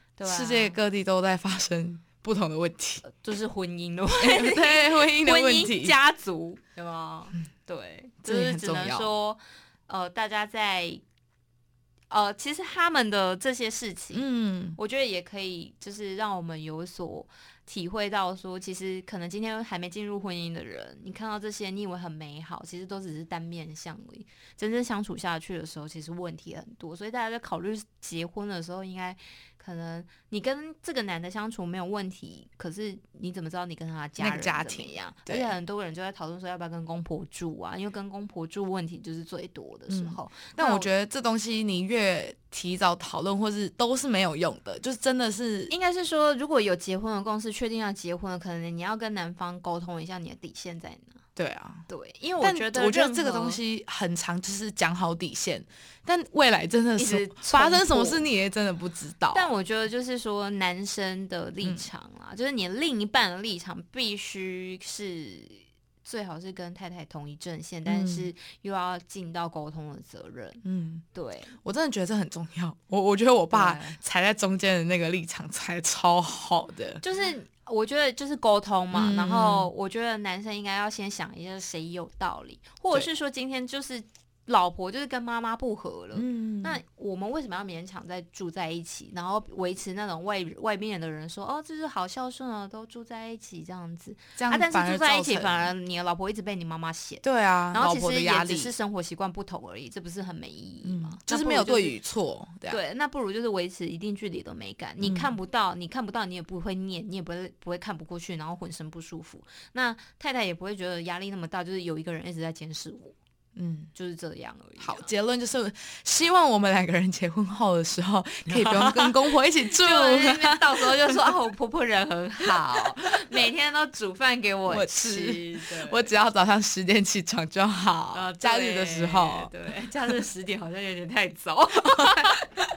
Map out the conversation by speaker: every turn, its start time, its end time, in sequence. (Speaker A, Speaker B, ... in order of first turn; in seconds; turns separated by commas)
Speaker A: 0.2-0.8, Speaker B: 0.2-3.0, Speaker A: 3.0-11.0, Speaker B: 4.2-6.0, Speaker B: 8.2-9.1, Speaker A: 12.1-14.2, Speaker B: 14.1-14.8, Speaker A: 14.8-40.9, Speaker B: 34.2-35.5, Speaker B: 39.9-45.7, Speaker A: 45.7-51.2, Speaker B: 51.4-51.9, Speaker A: 51.9-53.6, Speaker B: 52.4-59.5, Speaker A: 57.0-58.3, Speaker A: 59.3-71.5, Speaker B: 67.9-68.3, Speaker B: 70.6-71.0, Speaker B: 71.6-77.0, Speaker A: 73.5-74.0, Speaker A: 77.0-102.0, Speaker B: 78.9-79.7, Speaker B: 86.2-86.8, Speaker B: 94.4-95.7, Speaker B: 97.2-98.7, Speaker B: 100.8-102.8, Speaker A: 102.7-113.2, Speaker B: 105.0-105.3, Speaker B: 113.6-113.9, Speaker A: 113.9-115.1, Speaker B: 114.8-121.3, Speaker A: 118.5-126.1, Speaker B: 124.7-129.5, Speaker A: 128.1-132.5